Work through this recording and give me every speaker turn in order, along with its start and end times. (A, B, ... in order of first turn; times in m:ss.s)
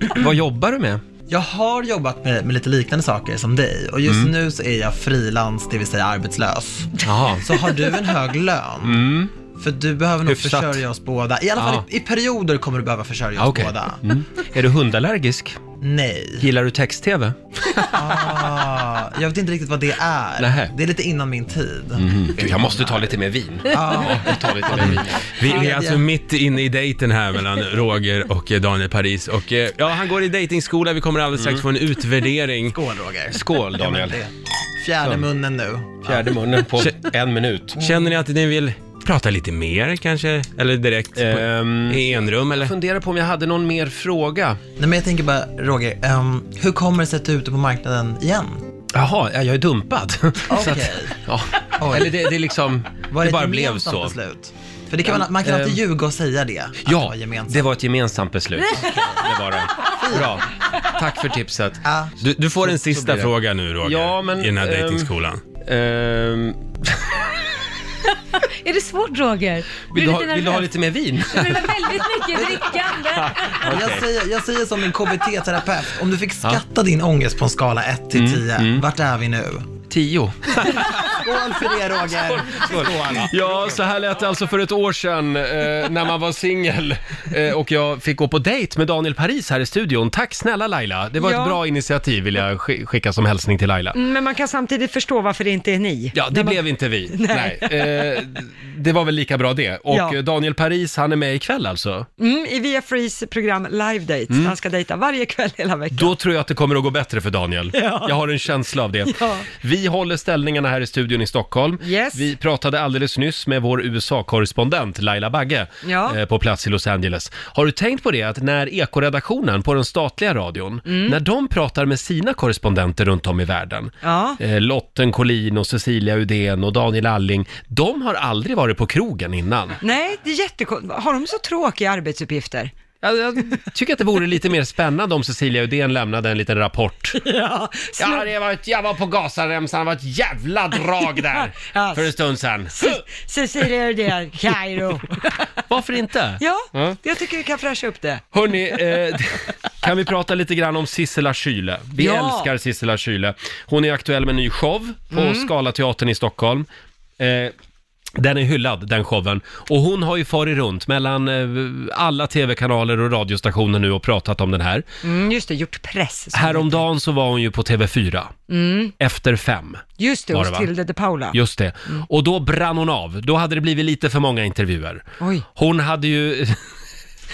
0:00.1-0:01.0 A
0:01.3-0:14.2 B
0:04.1-0:04.3 A
0:07.0-0:07.5 A
0:08.8-0:09.3 A
0:10.3-0:10.8 A
0:11.6-0:11.8 A
0:13.4-0:15.6 A
0:15.8-0:16.5 B
0:16.4-0:18.5 A
0:17.9-0:23.1 B
0:20.4-0:20.7 A
0:22.0-0:25.5 A
0:23.7-0:26.1 B
0:25.4-0:32.8 C
0:31.4-0:31.6 A
0:32.7-0:36.3 B
0:33.3-0:34.2 A
0:35.0-0:35.3 A
0:36.0-0:37.8 A
0:37.8-0:42.7 C
0:37.8-0:38.1 B
0:41.2-0:44.6 A
0:44.8-0:48.6 B
0:48.9-0:54.2 A
0:50.5-0:51.2 B
0:51.8-0:52.2 B
0:53.1-0:57.7 B
0:55.0-0:55.8 A
0:56.8-1:01.8 A
0:58.7-0:59.2 B
1:00.0-1:00.4 B
1:01.8-1:02.2 B
1:02.2-1:05.4 C
1:02.6-1:03.3 A
1:03.8-1:05.1 A
1:05.6-1:07.1 A
1:08.6-1:10.7 D
1:09.9-1:11.8 A
1:11.2-1:14.0 D
1:12.3-1:12.8 B
1:13.1-1:14.0 A
1:13.7-1:19.7 B
1:18.1-1:18.8 A
1:19.9-1:21.2 A
1:20.7-1:23.7 B
1:22.2-1:34.0 A
1:31.2-1:31.6 E
1:33.9-1:38.2 E
1:36.1-1:42.1 A
1:39.9-1:40.2 E
1:42.2-1:46.1 E
1:44.3-1:44.6 A
1:45.9-2:09.8 A
1:47.7-1:48.2 E
1:49.1-1:49.5 E
1:51.8-1:52.3 E
1:55.8-1:56.2 E
2:00.9-2:01.2 E
2:04.0-2:04.4 E
2:09.8-2:12.7 E
2:13.0-2:17.2 A
2:17.2-2:18.3 E
2:18.0-2:23.0 A
2:21.3-2:22.1 E
2:22.8-2:25.5 E
2:25.7-2:27.0 A
2:26.4-2:28.2 E
2:28.3-2:36.7 A
2:28.8-2:29.1 E
2:32.0-2:32.5 E
2:35.1-2:35.5 E
2:37.2-2:37.5 A
2:38.2-2:44.9 A
2:45.0-2:46.8 E
2:46.3-2:48.5 A
2:48.5-2:48.9 E
2:49.0-2:50.7 A
2:50.0-2:51.4 E
2:51.3-2:56.6 A
2:55.2-2:55.5 E